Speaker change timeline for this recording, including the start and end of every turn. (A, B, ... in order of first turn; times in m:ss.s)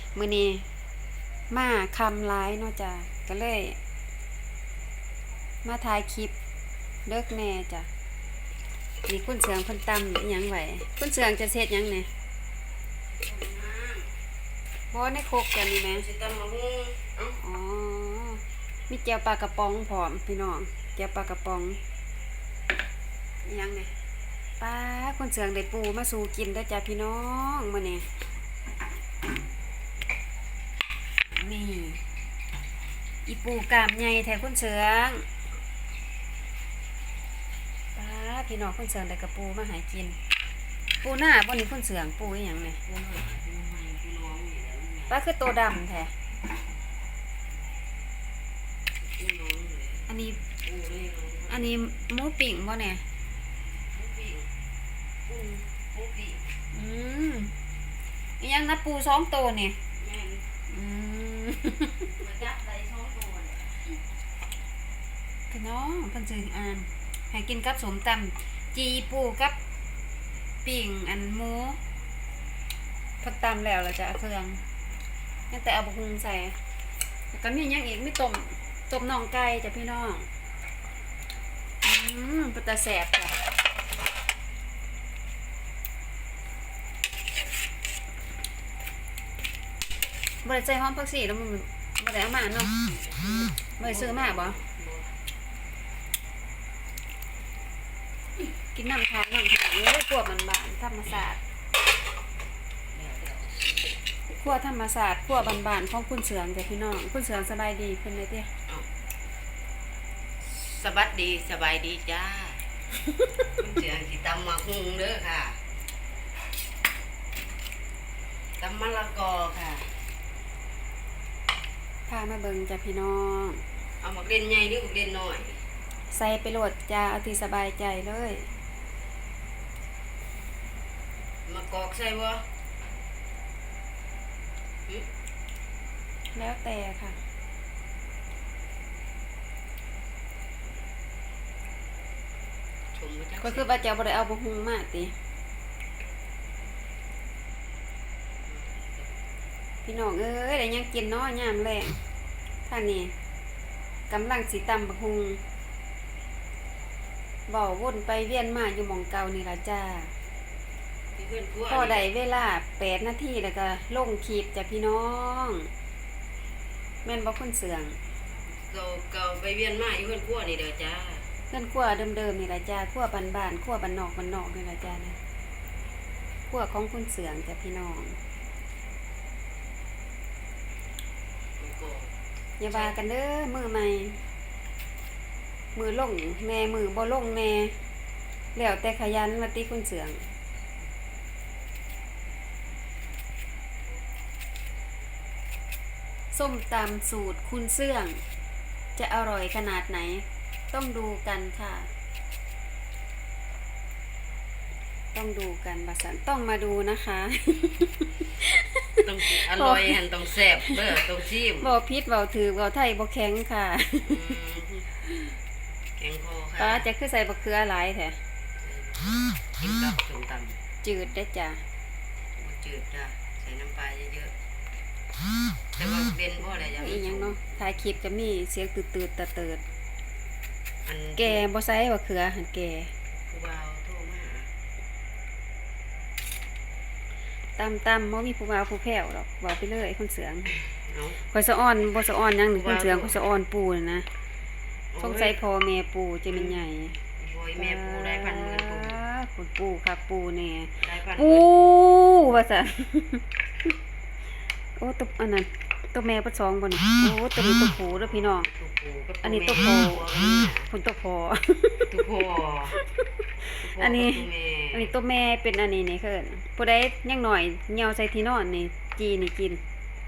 0:00.1-0:00.6 A
0:01.5-0:03.8 A
0:05.6-0:06.3 A
0:07.1-0:07.9 A
0:09.1-0:12.1 A
0:13.1-0:14.1 B
0:14.9-0:16.1 A
0:15.8-0:17.4 B
0:17.4-0:21.8 A
0:23.4-0:23.9 A
0:24.6-0:28.1 A
0:31.3-0:32.0 A
0:33.3-0:35.3 A
0:38.0-0:40.2 A
0:41.0-0:42.8 A
0:42.8-0:45.2 B
0:45.1-0:46.1 A
0:49.1-0:51.7 B
0:50.1-0:50.4 A
0:51.5-0:53.0 A
0:53.9-0:54.5 B
0:55.3-0:56.4 B
0:56.7-0:57.5 A
0:58.4-0:59.8 A
1:00.0-1:00.5 B
1:00.7-1:02.1 A
1:02.2-1:04.0 B
1:05.5-1:09.6 A
1:10.6-1:11.8 A
1:13.2-1:14.6 A
1:15.5-1:16.6 A
1:17.3-1:20.3 A
1:21.8-1:23.4 A
1:30.4-1:32.7 A
1:32.7-1:35.1 B
1:33.8-1:34.6 A
1:38.7-1:41.4 A
1:42.9-1:43.7 B
1:44.4-1:48.5 A
1:50.4-1:52.6 B
1:53.5-1:55.6 B
1:58.6-1:59.9 B
2:02.1-2:03.6 A
2:04.0-2:05.6 B
2:06.1-2:08.5 A
2:11.5-2:12.4 B
2:16.3-2:17.2 A
2:22.9-2:23.9 B
2:23.4-2:25.2 A
2:28.5-2:29.1 B
2:29.8-2:32.0 A
2:32.7-2:33.1 A
2:34.1-2:35.4 A
2:37.5-2:40.1 A
2:41.2-2:42.1 B
2:41.7-2:45.7 A
2:47.0-2:48.0 A
2:48.5-2:51.3 B
2:51.5-2:55.2 A
2:56.5-2:58.2 A
3:01.6-3:02.1 B
3:02.6-3:04.2 A
3:02.7-3:03.0 B
3:05.8-3:07.8 A
3:08.6-3:10.3 A
3:16.3-3:18.2 A
3:19.0-3:21.9 A
3:25.1-3:30.0 A
3:29.0-3:31.7 B
3:30.7-3:34.3 A
3:34.0-3:34.9 B
3:36.0-3:36.9 B
3:36.6-3:38.2 A
3:38.6-3:40.6 B
3:40.8-3:41.6 A
3:42.4-3:44.3 B
3:45.8-3:47.5 B
3:46.6-3:49.6 A
3:50.8-3:51.5 B
3:51.2-3:52.9 A
3:53.3-3:54.5 B
3:57.6-4:00.5 A
4:00.9-4:01.2 B
4:01.3-4:04.1 A
4:02.5-4:03.2 B
4:04.9-4:05.4 B
4:05.0-4:07.0 A
4:06.3-4:06.6 B
4:07.2-4:09.0 B
4:07.6-4:13.2 A
4:10.8-4:11.8 B
4:14.8-4:18.5 A
4:17.8-4:20.7 B
4:19.2-4:21.9 A
4:21.9-4:22.8 B
4:23.5-4:29.6 A
4:23.6-4:24.9 B